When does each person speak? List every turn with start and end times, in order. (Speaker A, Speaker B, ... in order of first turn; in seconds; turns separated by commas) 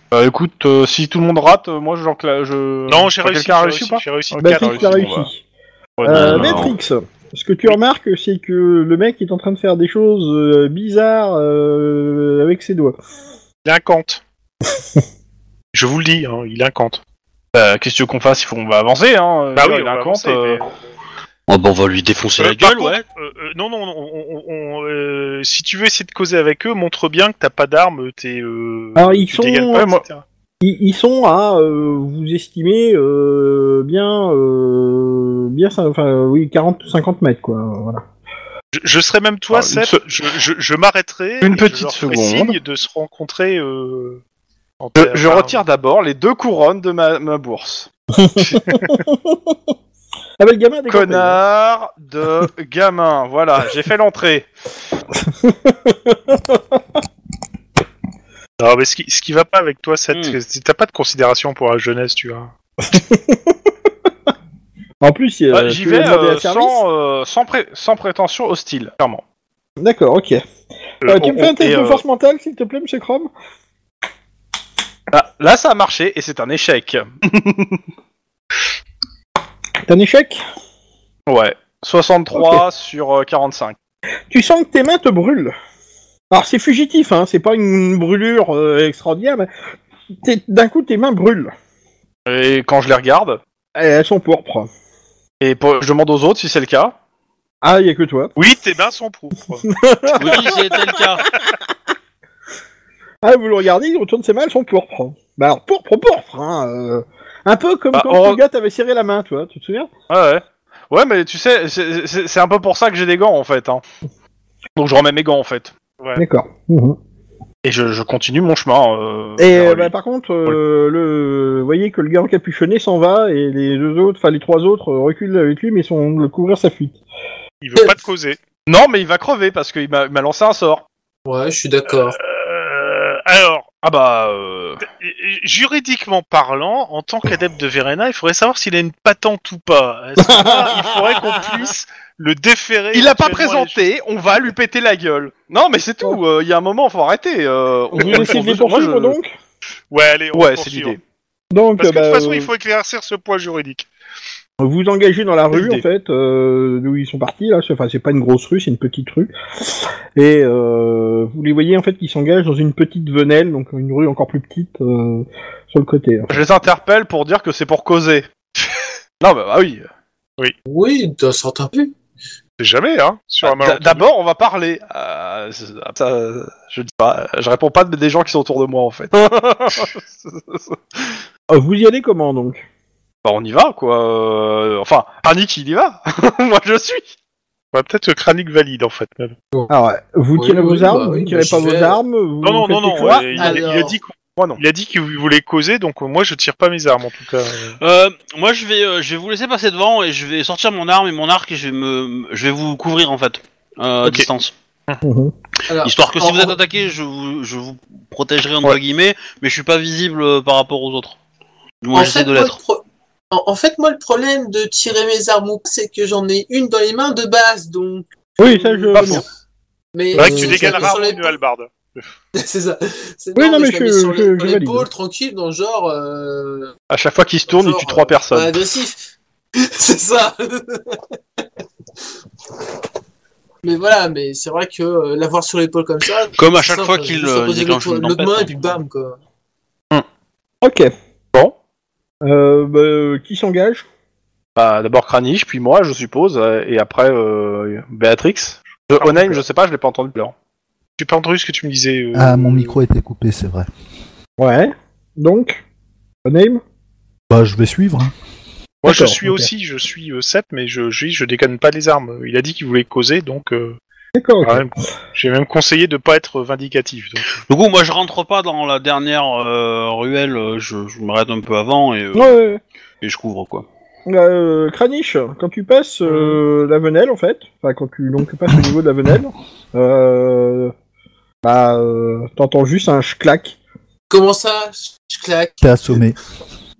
Speaker A: 0.1-5.3, Speaker B: 2.9-5.0, Speaker C: 4.4-5.4, Speaker A: 6.0-6.7, Speaker C: 6.0-12.9, Speaker D: 6.1-6.7, Speaker B: 13.6-14.2, Speaker B: 15.7-17.0, Speaker A: 17.5-20.6, Speaker B: 19.5-20.7, Speaker D: 21.5-23.0, Speaker B: 22.4-30.2, Speaker C: 29.0-29.8, Speaker A: 29.7-30.0, Speaker C: 30.6-38.0, Speaker B: 38.7-44.2, Speaker A: 39.5-40.1, Speaker A: 41.4-42.6, Speaker B: 44.8-45.6, Speaker A: 44.9-47.9, Speaker C: 48.1-49.6, Speaker B: 48.6-48.9, Speaker C: 50.4-51.4, Speaker A: 50.9-54.5, Speaker C: 55.1-56.8, Speaker B: 58.6-62.5, Speaker D: 60.1-60.4, Speaker C: 62.8-63.6, Speaker C: 65.0-66.8, Speaker A: 65.5-69.2, Speaker C: 69.8-70.4, Speaker C: 71.0-73.3, Speaker A: 71.1-72.0, Speaker A: 75.1-77.8, Speaker C: 79.9-80.4, Speaker A: 81.3-83.8, Speaker C: 82.3-82.7, Speaker C: 84.3-85.5, Speaker C: 86.3-89.5, Speaker C: 90.2-91.5, Speaker A: 92.3-93.4, Speaker C: 93.8-94.7, Speaker A: 95.4-97.0, Speaker C: 97.6-98.3, Speaker B: 98.4-99.7, Speaker C: 99.7-101.3, Speaker D: 100.1-101.2, Speaker C: 103.2-109.9, Speaker A: 107.9-108.4, Speaker A: 110.1-113.8, Speaker A: 114.8-115.7, Speaker C: 116.2-117.0, Speaker A: 117.6-119.9, Speaker C: 119.4-127.0, Speaker B: 127.6-128.4, Speaker A: 128.7-130.8, Speaker E: 131.2-132.2, Speaker B: 132.1-133.7, Speaker A: 133.8-134.8, Speaker B: 134.8-143.8, Speaker C: 140.2-141.1, Speaker A: 142.9-149.2, Speaker C: 147.9-149.3, Speaker B: 149.9-151.0, Speaker A: 150.3-151.0, Speaker C: 151.5-152.5, Speaker B: 151.8-153.9, Speaker C: 154.6-166.4, Speaker A: 155.5-155.8, Speaker A: 166.3-168.3, Speaker A: 169.2-169.8, Speaker E: 170.7-171.9, Speaker B: 172.6-174.1, Speaker A: 173.4-181.2, Speaker C: 181.5-182.6, Speaker A: 183.2-187.1, Speaker B: 187.7-189.3, Speaker C: 189.7-193.6, Speaker E: 190.4-192.0, Speaker B: 192.4-197.8, Speaker E: 193.1-194.0, Speaker A: 194.3-194.6, Speaker D: 197.8-204.5, Speaker C: 205.0-205.3, Speaker E: 205.7-206.6, Speaker D: 205.8-211.2, Speaker D: 211.8-212.6, Speaker E: 211.9-219.2, Speaker C: 218.4-219.2, Speaker A: 218.9-219.2, Speaker E: 219.9-221.3, Speaker B: 220.1-222.1, Speaker C: 220.2-220.9, Speaker E: 222.3-226.7, Speaker C: 223.4-224.9, Speaker A: 226.9-228.6, Speaker E: 227.5-231.2, Speaker E: 233.6-239.2, Speaker D: 236.3-238.8, Speaker C: 240.6-240.9, Speaker C: 242.2-243.8, Speaker A: 244.6-250.3, Speaker B: 249.0-249.4, Speaker B: 251.0-252.8, Speaker F: 252.1-253.7, Speaker C: 254.4-255.6, Speaker C: 256.2-256.6, Speaker F: 257.3-258.1, Speaker B: 258.8-263.8, Speaker C: 258.9-259.5, Speaker C: 264.1-264.6, Speaker B: 264.4-267.4, Speaker D: 267.4-272.4, Speaker C: 272.1-272.6, Speaker D: 273.0-273.6, Speaker C: 274.1-280.7, Speaker C: 281.4-283.5, Speaker E: 284.1-285.7, Speaker F: 285.6-286.2